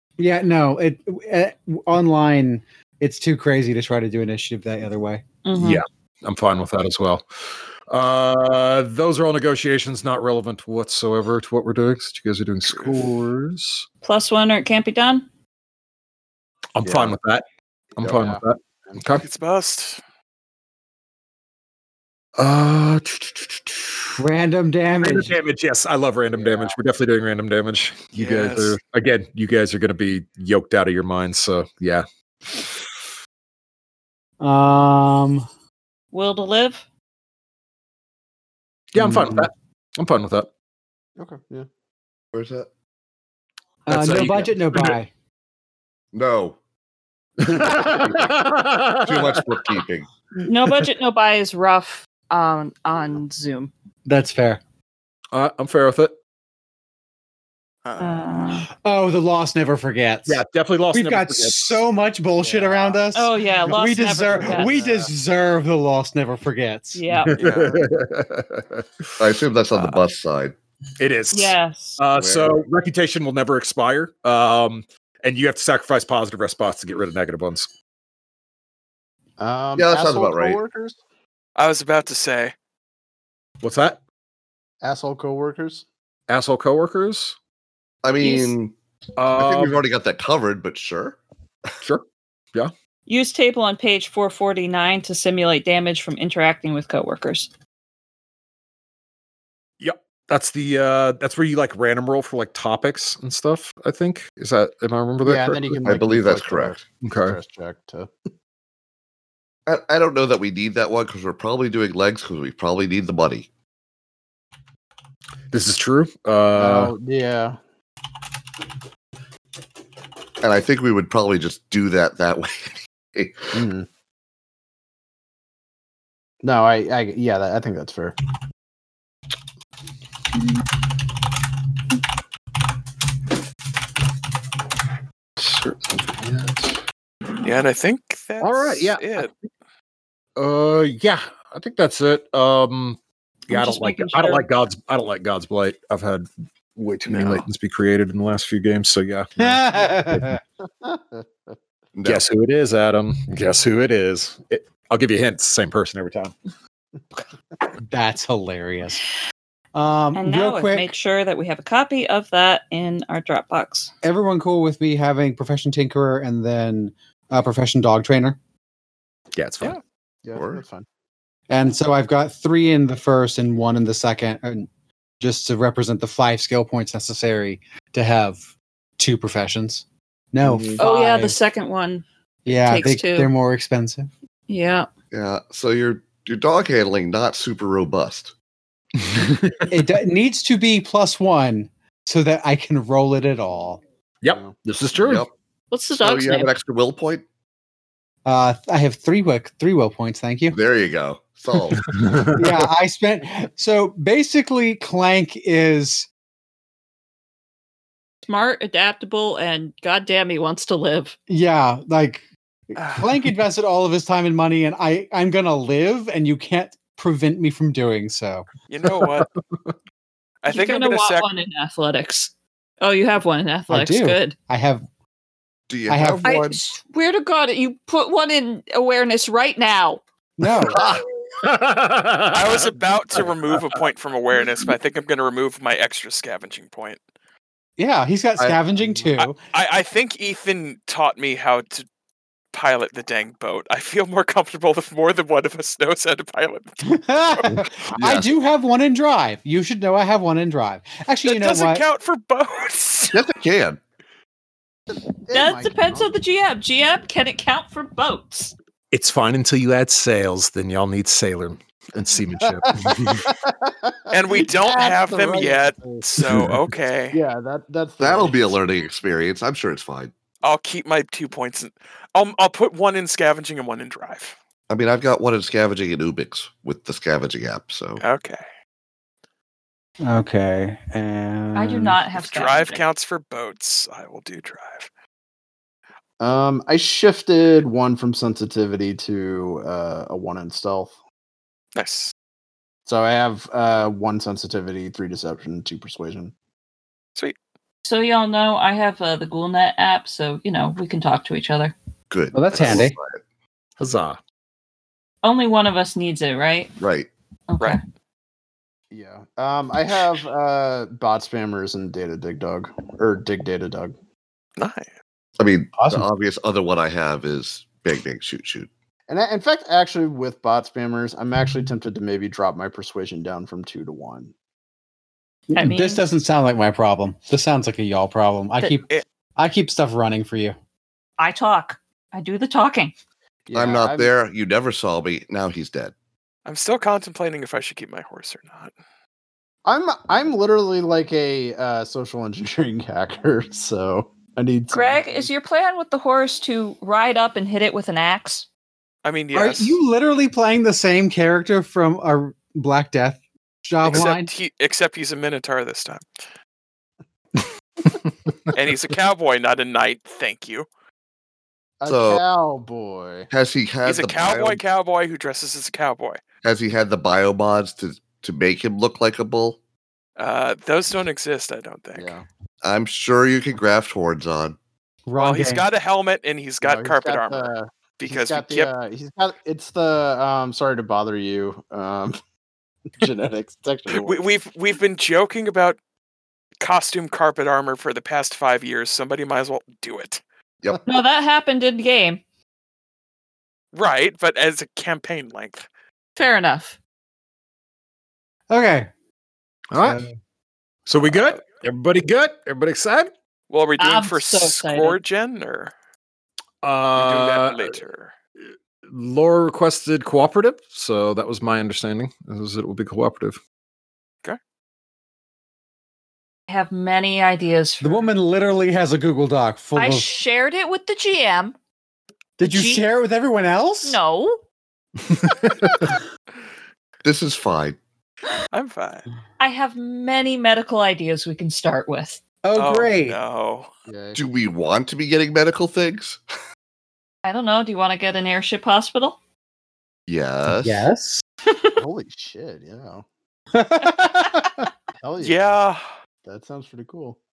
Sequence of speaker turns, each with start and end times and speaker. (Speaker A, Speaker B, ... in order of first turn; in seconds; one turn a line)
Speaker A: 0.2-5.2
Speaker B: 5.4-5.8
Speaker C: 5.5-13.8
Speaker D: 12.6-13.0
Speaker B: 14.0-15.2
Speaker C: 16.8-17.4
Speaker E: 16.9-17.1
Speaker C: 18.0-19.2
Speaker E: 18.0-19.0
Speaker D: 19.1-20.0
Speaker C: 22.4-24.1
Speaker A: 24.2-25.3
Speaker C: 25.0-32.9
Speaker E: 26.3-26.8
Speaker D: 28.1-28.8
Speaker A: 34.4-35.5
Speaker B: 36.1-36.8
Speaker C: 38.9-40.5
Speaker A: 39.0-39.4
Speaker E: 41.2-41.7
Speaker F: 42.3-42.7
Speaker A: 43.9-45.1
Speaker C: 43.9-45.0
Speaker F: 46.1-46.6
Speaker C: 47.4-49.7
Speaker F: 47.5-48.3
Speaker F: 49.0-50.1
Speaker B: 50.5-53.7
Speaker A: 54.0-54.6
Speaker C: 55.3-56.1
Speaker D: 57.8-58.2
Speaker B: 58.0-58.7
Speaker A: 58.8-67.0
Speaker C: 60.3-61.8
Speaker E: 62.4-63.0
Speaker B: 63.1-64.9
Speaker E: 64.3-65.1
Speaker B: 66.9-67.4
Speaker C: 67.1-69.1
Speaker D: 67.3-67.8
Speaker F: 69.2-70.5
Speaker C: 69.7-70.0
Speaker C: 71.0-77.7
Speaker B: 71.3-72.0
Speaker F: 72.1-72.6
Speaker E: 79.4-81.0
Speaker F: 79.7-80.6
Speaker D: 81.5-82.5
Speaker C: 83.6-84.0
Speaker E: 84.8-85.8
Speaker C: 86.3-87.4
Speaker F: 88.0-88.7
Speaker B: 88.2-88.5
Speaker C: 89.2-89.8
Speaker F: 89.3-91.2
Speaker C: 91.8-92.7
Speaker B: 93.0-97.5
Speaker C: 99.8-105.9
Speaker E: 105.2-108.1
Speaker F: 105.8-106.8
Speaker C: 107.0-107.4
Speaker F: 109.7-113.5
Speaker C: 115.5-116.9
Speaker E: 116.5-117.6
Speaker F: 120.4-123.6
Speaker E: 123.5-123.9
Speaker E: 126.4-128.2
Speaker C: 135.4-136.8
Speaker D: 137.4-139.3
Speaker C: 138.4-139.5
Speaker C: 140.3-149.6
Speaker B: 143.5-144.4
Speaker D: 147.1-147.4
Speaker A: 149.4-150.4
Speaker E: 150.6-151.6
Speaker F: 151.9-152.2
Speaker C: 152.0-156.3
Speaker A: 157.8-159.0
Speaker A: 159.7-160.9
Speaker B: 160.1-163.9
Speaker A: 164.0-168.4
Speaker C: 169.3-169.8
Speaker E: 170.2-170.8
Speaker F: 170.3-170.6
Speaker A: 171.5-174.7
Speaker A: 175.2-178.4
Speaker A: 179.0-181.3
Speaker E: 180.4-180.8
Speaker B: 180.8-183.3
Speaker A: 182.4-184.1
Speaker B: 184.5-184.9
Speaker F: 185.1-188.3
Speaker C: 189.0-189.7
Speaker A: 189.7-193.8
Speaker C: 194.2-195.3
Speaker E: 194.3-194.6
Speaker F: 194.9-195.3
Speaker B: 195.7-196.5
Speaker F: 195.9-197.2
Speaker A: 198.2-200.6
Speaker F: 200.5-201.9
Speaker C: 201.7-202.6
Speaker A: 202.3-206.1
Speaker B: 208.2-211.2
Speaker A: 211.3-218.4
Speaker D: 212.8-213.1
Speaker D: 218.7-219.3
Speaker C: 218.9-219.7
Speaker D: 220.4-221.3
Speaker B: 220.5-224.3
Speaker A: 223.7-224.8
Speaker F: 225.7-226.6
Speaker A: 225.9-226.3
Speaker B: 226.2-230.0
Speaker A: 230.4-230.8
Speaker F: 230.7-231.0
Speaker C: 231.4-233.2
Speaker D: 232.3-237.0
Speaker A: 237.8-239.4
Speaker E: 238.8-239.0
Speaker D: 239.2-241.9
Speaker D: 242.5-247.4
Speaker A: 246.8-251.8
Speaker F: 247.4-248.3
Speaker D: 251.2-253.2
Speaker F: 253.1-253.8
Speaker E: 254.9-256.1
Speaker B: 255.3-258.5
Speaker C: 258.9-263.4
Speaker E: 262.6-266.1
Speaker D: 264.1-267.2
Speaker C: 266.2-266.7
Speaker E: 267.1-268.5
Speaker F: 268.0-270.1
Speaker D: 270.4-274.4
Speaker F: 274.7-278.0
Speaker D: 278.0-278.4
Speaker A: 280.0-282.0
Speaker B: 281.5-282.8
Speaker D: 282.2-284.9
Speaker E: 286.2-290.9
Speaker D: 291.7-292.1
Speaker E: 292.9-296.3
Speaker B: 297.8-301.7
Speaker F: 302.1-303.2
Speaker A: 302.3-302.9
Speaker C: 303.8-304.2
Speaker B: 305.2-306.7
Speaker F: 306.8-307.1
Speaker B: 307.5-307.8
Speaker E: 308.9-313.9
Speaker D: 314.6-314.9
Speaker F: 315.4-318.7
Speaker A: 315.8-316.0
Speaker E: 319.1-324.3
Speaker A: 325.5-330.6
Speaker B: 325.5-326.0
Speaker B: 331.2-332.9
Speaker E: 333.4-334.1
Speaker F: 333.5-335.9
Speaker D: 336.4-338.7
Speaker E: 339.6-345.3
Speaker B: 344.7-348.5
Speaker D: 349.0-349.8
Speaker A: 349.3-354.3
Speaker D: 353.8-356.0
Speaker C: 357.9-358.5
Speaker D: 358.5-360.6
Speaker E: 361.8-363.3
Speaker F: 361.9-362.2
Speaker F: 363.3-364.6
Speaker D: 363.8-366.2
Speaker F: 366.4-369.6
Speaker D: 370.2-372.1
Speaker E: 371.9-372.2
Speaker F: 372.6-374.6
Speaker A: 375.1-375.6
Speaker D: 375.2-378.7
Speaker E: 376.6-382.2
Speaker E: 382.9-384.2
Speaker D: 383.9-385.8
Speaker D: 386.6-390.2
Speaker B: 390.8-392.2
Speaker D: 393.7-395.7
Speaker B: 396.1-396.8
Speaker A: 398.5-398.9
Speaker C: 399.7-400.0
Speaker A: 399.8-400.1
Speaker C: 400.9-403.1
Speaker D: 403.5-405.7
Speaker B: 403.8-405.0
Speaker C: 406.6-407.7
Speaker D: 406.9-408.1
Speaker C: 408.9-413.4
Speaker B: 416.5-418.1
Speaker A: 417.8-420.1
Speaker B: 419.7-421.5
Speaker A: 422.4-424.0
Speaker B: 422.4-422.8
Speaker B: 423.8-424.4
Speaker C: 425.0-425.9
Speaker F: 427.0-427.8
Speaker D: 428.5-429.1
Speaker B: 429.4-432.2
Speaker A: 432.4-433.2
Speaker D: 432.6-433.7
Speaker E: 433.9-434.2
Speaker F: 434.1-436.2
Speaker B: 437.2-439.2
Speaker F: 440.1-440.9
Speaker A: 440.6-441.2
Speaker B: 441.4-441.8
Speaker E: 441.8-443.0
Speaker A: 443.5-444.7
Speaker E: 445.0-445.6
Speaker D: 445.2-445.8
Speaker E: 446.2-447.2